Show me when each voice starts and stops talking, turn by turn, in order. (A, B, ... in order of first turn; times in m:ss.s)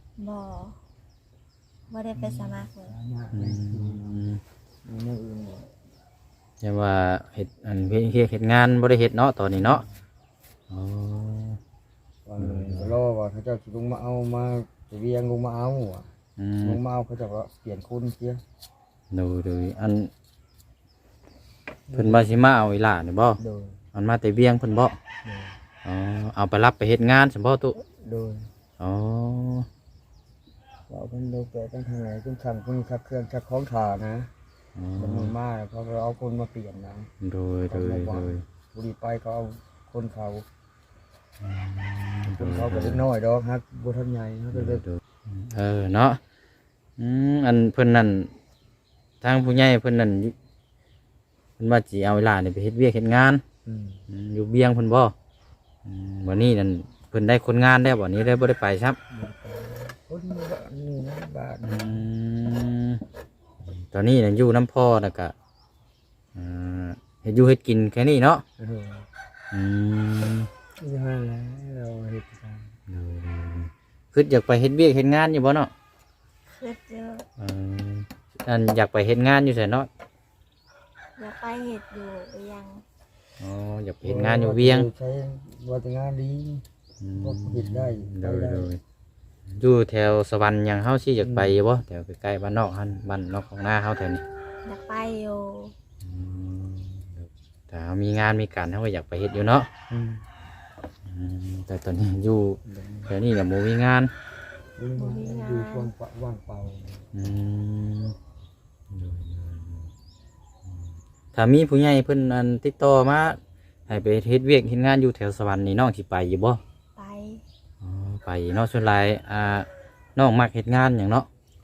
0:00.2-0:00.8 A
0:01.9-0:03.0 A
0:02.2-0:04.2 B
0:03.3-0:04.4 C
0:04.8-0:05.7 B
0:06.6-0:09.8 C
0:10.7-0:11.6 C
0:12.2-0:16.1 B
0:12.4-0:13.0 C
0:16.4-0:16.8 C
0:16.6-0:18.4 B
0:19.1-0:20.1 C
0:21.9-0:22.4 B
0:21.9-0:23.4 C
0:23.4-0:23.8 B
0:23.9-0:25.0 C
0:25.2-0:25.6 B
0:25.8-0:27.8 C
0:27.9-0:28.5 B
0:28.8-0:29.7 C
0:30.9-0:34.3 B
0:34.8-0:35.3 C
0:35.0-0:37.1 B
0:37.2-0:38.4 C
0:37.7-0:40.5 B
0:41.4-0:43.1 C
0:42.3-0:44.8 B
0:44.5-0:46.2 C
0:47.0-0:48.3 C
0:49.2-0:50.3 C
0:51.6-0:53.4 C
0:53.6-0:54.0 B
0:54.1-0:55.1 C
0:55.9-0:59.0 C
0:59.1-1:02.1 B
1:01.6-1:03.0 C
1:03.7-1:05.3 C
1:06.4-1:08.4 C
1:08.6-1:09.1 B
1:09.5-1:10.5 C
1:10.8-1:12.7 B
1:12.9-1:15.7 C
1:16.5-1:17.2 A
1:17.4-1:19.9 C
1:21.2-1:22.8 A
1:23.4-1:24.9 C
1:24.0-1:26.6 B
1:27.0-1:28.8 C
1:27.2-1:28.7 B
1:29.6-1:34.2 C
1:31.2-1:31.6 B
1:34.6-1:35.7 A
1:36.0-1:39.7 C
1:39.9-1:40.2 B
1:41.1-1:44.1 C
1:42.7-1:43.1 B
1:44.8-1:47.1 B
1:45.0-1:45.9 A
1:47.1-1:48.2 C
1:48.9-1:49.9 C
1:50.7-1:56.6 C
1:57.0-1:57.4 A
1:57.8-2:01.3 C